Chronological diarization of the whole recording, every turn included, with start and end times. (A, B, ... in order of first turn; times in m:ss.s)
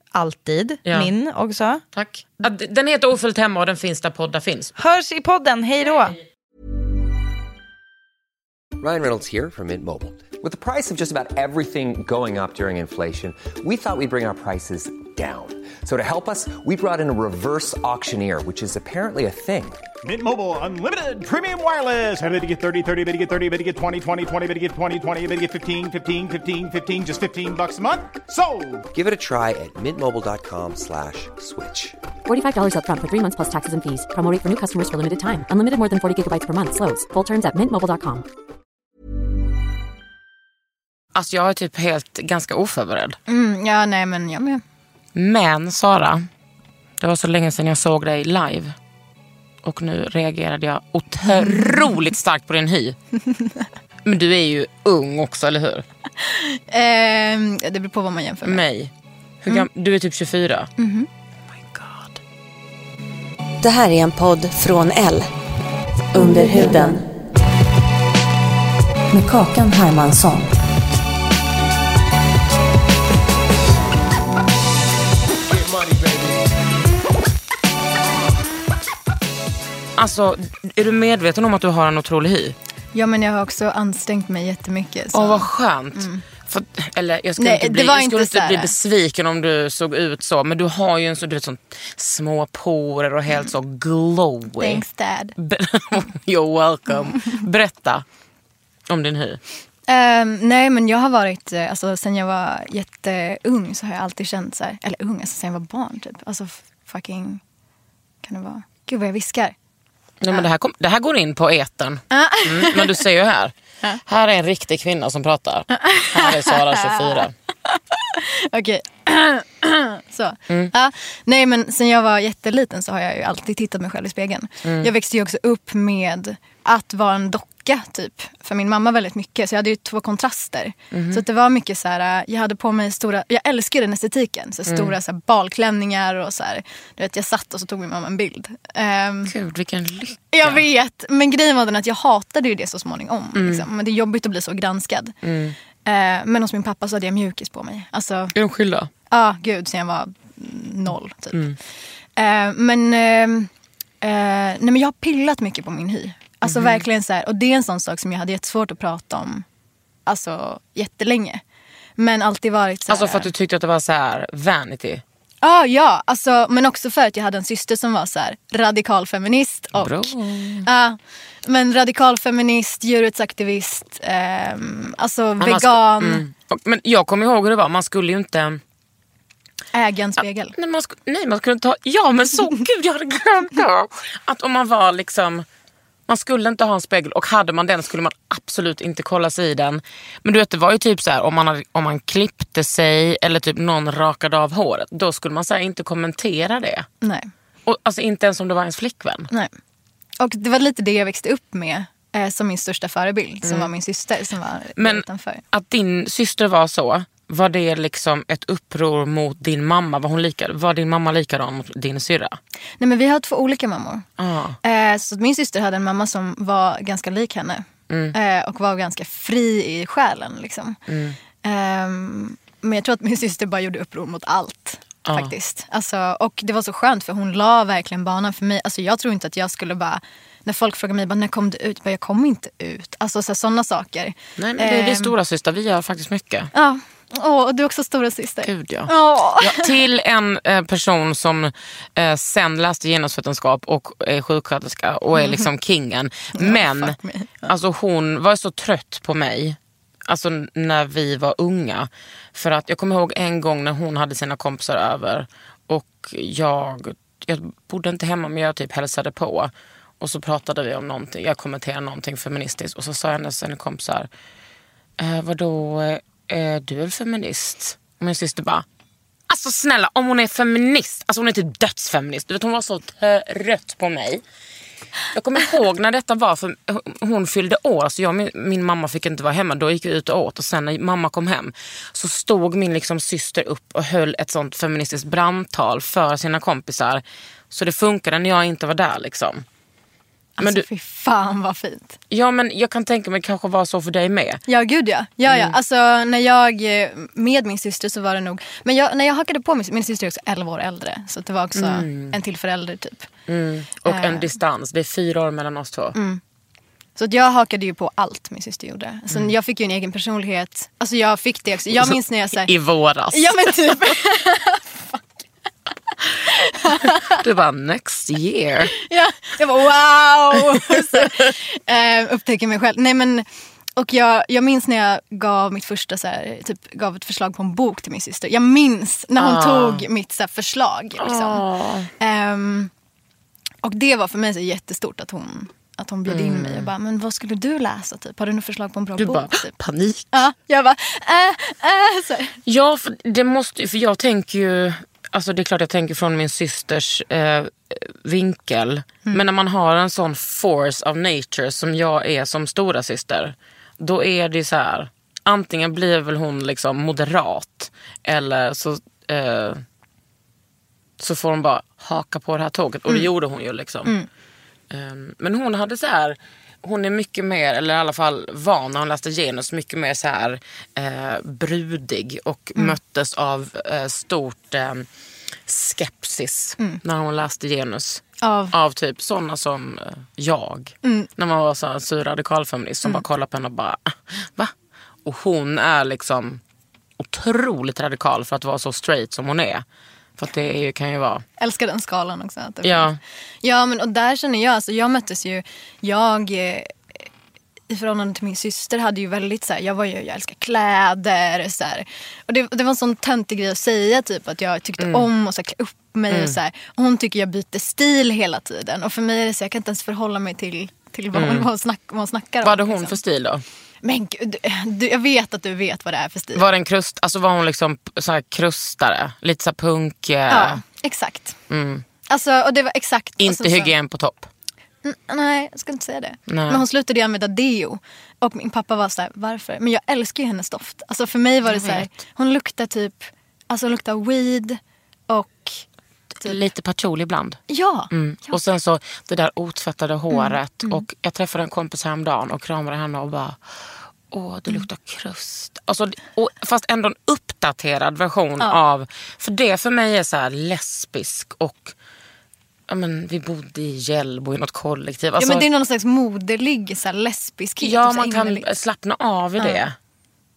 0:00.1-0:01.8 A
0:00.8-0:01.1 B
0:01.9-0:04.7 B
0:04.8-0:06.2 A
0:08.8-0:19.8 C
0:20.0-0:28.8 D
0:28.9-0:32.0 C
0:32.2-0:38.2 E
0:41.1-0:43.2 B
0:43.3-0:44.6 F
0:45.1-0:46.3 B
0:47.0-0:48.7 B
0:49.6-0:53.0 B
0:51.3-0:52.0 F
0:53.2-0:53.6 F
0:54.0-0:55.8 B
0:56.2-0:58.6 F
0:58.4-0:58.9 B
0:59.4-1:00.7 B
1:00.8-1:01.1 F
1:01.7-1:02.1 B
1:03.6-1:05.3 G
1:06.1-1:07.0 G
1:09.1-1:10.6 G
1:20.0-1:22.6 B
1:22.9-1:26.2 F
1:25.1-1:34.8 B
1:27.4-1:28.7 F
1:34.6-1:35.3 F
1:35.4-1:38.0 B
1:38.9-1:39.4 B
1:39.9-1:47.4 F
1:48.2-1:49.5 F
1:50.2-1:53.5 B
1:52.1-1:53.0 F
1:54.0-1:57.3 B
1:55.7-2:19.3 F
2:04.6-2:04.9 B
2:10.9-2:11.2 B
2:14.7-2:14.9 B
2:19.3-2:20.6 B
2:20.3-2:25.1 F
2:23.3-2:23.6 B
2:25.2-2:25.6 B
2:25.8-2:28.3 F
2:28.3-2:28.9 B
2:29.1-2:31.6 F
2:31.3-2:31.6 B
2:32.2-2:33.5 F
2:34.0-2:39.4 F
2:36.4-2:36.8 B
2:40.0-2:41.4 F
2:42.0-2:43.3 F
2:42.9-2:45.0 B
2:45.4-2:50.1 F
2:49.7-2:50.7 B
2:50.6-2:56.2 F
2:55.4-2:58.6 B
2:59.7-3:00.5 F
3:00.5-3:05.4 B
3:06.1-3:16.9 B
3:17.0-3:17.3 F
3:17.6-3:19.3 B
3:20.2-3:25.4 F
3:23.4-3:23.7 B
3:24.8-3:32.4 B
3:32.8-3:34.1 F
3:34.2-3:34.6 B
3:34.6-3:40.8 F
3:37.9-3:38.2 B
3:40.9-3:41.2 B
3:41.4-3:55.1 F
3:45.0-3:45.3 B
3:54.4-3:56.5 B
3:56.5-3:59.7 F
3:58.4-4:24.1 B
4:05.1-4:05.5 F
4:06.3-4:07.5 F
4:25.0-4:28.6 B
4:29.3-4:34.2 B
4:35.1-4:49.4 B
4:50.4-4:52.0 F
4:50.4-4:50.6 B
4:52.1-4:54.4 B
4:54.5-5:03.1 F
4:55.2-4:55.6 B
5:01.5-5:02.2 B
5:03.3-5:06.0 B
5:03.8-5:04.3 F
5:05.9-5:06.2 F
5:07.0-5:12.5 F
5:11.8-5:13.3 B
5:13.1-5:15.0 F
5:16.0-5:17.2 F
5:16.8-5:18.7 B
5:18.8-5:23.2 F
5:20.7-5:21.0 B
5:23.8-5:31.4 F
5:29.2-5:29.8 B
5:31.0-5:31.9 B
5:32.0-5:32.7 F
5:33.6-5:39.5 F
5:36.1-5:36.7 B
5:39.0-5:40.2 B
5:40.1-5:42.4 F
5:42.4-5:59.6 B
6:01.0-6:03.9 B
6:04.7-6:14.9 B
6:15.5-6:24.5 B
6:18.2-6:18.5 F
6:20.8-6:21.1 F
6:25.0-6:26.4 B
6:27.0-6:29.6 B
6:30.2-6:31.2 B
6:31.4-6:36.7 F
6:32.6-6:33.0 B
6:37.7-6:53.0 F
6:44.8-6:45.1 B
6:46.1-6:46.4 B
6:51.1-6:51.5 B
6:52.4-6:53.4 B
6:53.8-6:56.4 F
6:56.3-7:00.6 B
7:00.3-7:01.4 F
7:01.5-7:01.8 B
7:02.1-7:03.7 F
7:03.2-7:04.3 B
7:04.8-7:15.6 F
7:06.3-7:06.6 B
7:11.5-7:11.9 B
7:16.2-7:23.4 B
7:17.5-7:18.4 F
7:20.1-7:20.8 F
7:24.1-7:31.7 B
7:32.7-7:35.4 B
7:35.2-7:38.5 F
7:37.6-7:39.7 B